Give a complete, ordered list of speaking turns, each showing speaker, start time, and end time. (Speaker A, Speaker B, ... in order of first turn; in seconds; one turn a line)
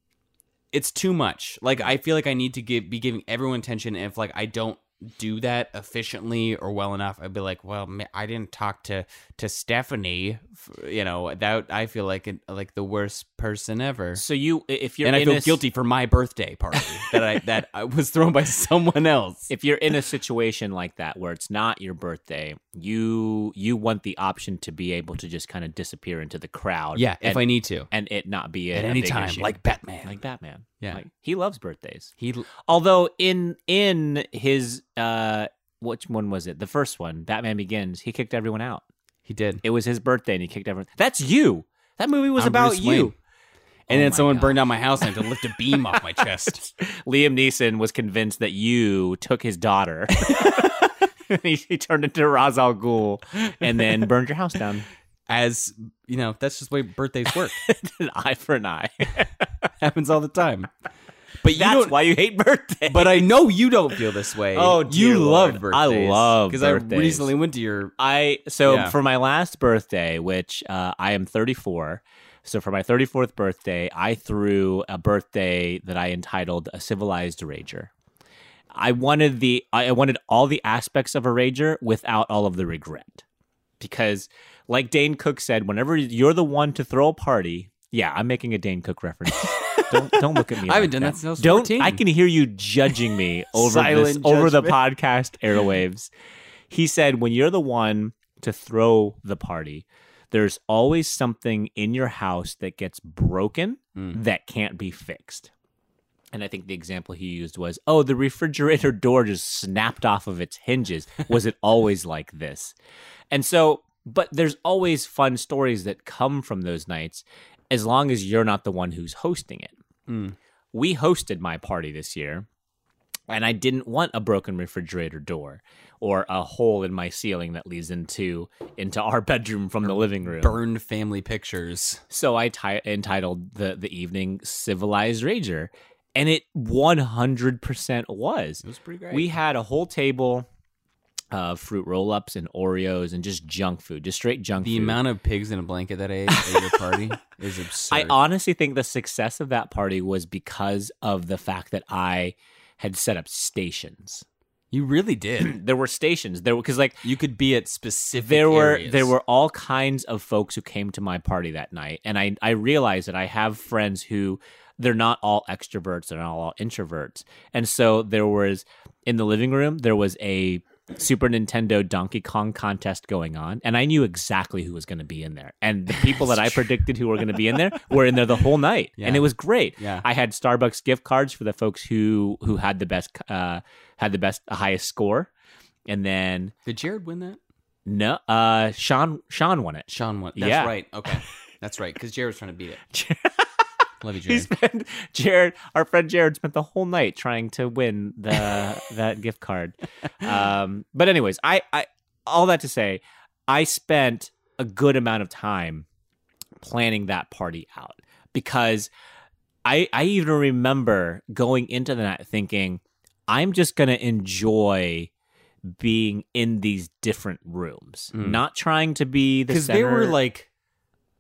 Speaker A: 0.7-14.2
Speaker B: 14.2-15.6
Speaker A: 15.0-19.5
Speaker B: 16.8-17.2
Speaker B: 19.5-32.1
Speaker A: 27.0-27.9
Speaker A: 28.7-30.2
Speaker A: 32.2-32.5
Speaker B: 32.7-38.9
Speaker A: 39.3-39.6
Speaker B: 39.6-43.1
Speaker A: 42.4-43.1
Speaker B: 43.9-45.3
Speaker A: 43.9-46.6
Speaker B: 45.9-54.9
Speaker A: 55.3-57.6
Speaker B: 57.6-59.3
Speaker A: 59.8-60.7
Speaker A: 61.4-62.0
Speaker B: 61.5-63.3
Speaker A: 62.9-67.9
Speaker B: 64.5-67.3
Speaker B: 68.0-77.9
Speaker A: 68.7-69.0
Speaker B: 78.7-83.2
Speaker B: 83.8-96.1
Speaker A: 89.4-92.0
Speaker A: 93.5-94.8
Speaker B: 96.7-105.5
Speaker B: 106.3-112.8
Speaker B: 113.3-119.8
Speaker A: 120.1-120.4
Speaker B: 120.7-122.5
Speaker B: 123.3-130.6
Speaker A: 129.8-132.0
Speaker B: 132.1-140.5
Speaker A: 138.6-139.4
Speaker B: 141.3-145.0
Speaker A: 144.6-148.2
Speaker B: 146.3-146.8
Speaker B: 147.9-154.3
Speaker A: 154.7-155.6
Speaker B: 155.4-157.1
Speaker A: 157.0-159.2
Speaker B: 158.2-185.3
Speaker A: 176.1-176.3
Speaker A: 179.0-180.1
Speaker B: 185.9-186.5
Speaker A: 186.7-187.4
Speaker B: 187.9-190.7
Speaker A: 189.9-192.8
Speaker B: 192.9-193.5
Speaker A: 194.0-194.5
Speaker B: 194.3-205.9
Speaker B: 206.6-208.9
Speaker B: 209.7-215.1
Speaker B: 215.7-220.2
Speaker A: 218.1-218.4
Speaker A: 219.5-220.5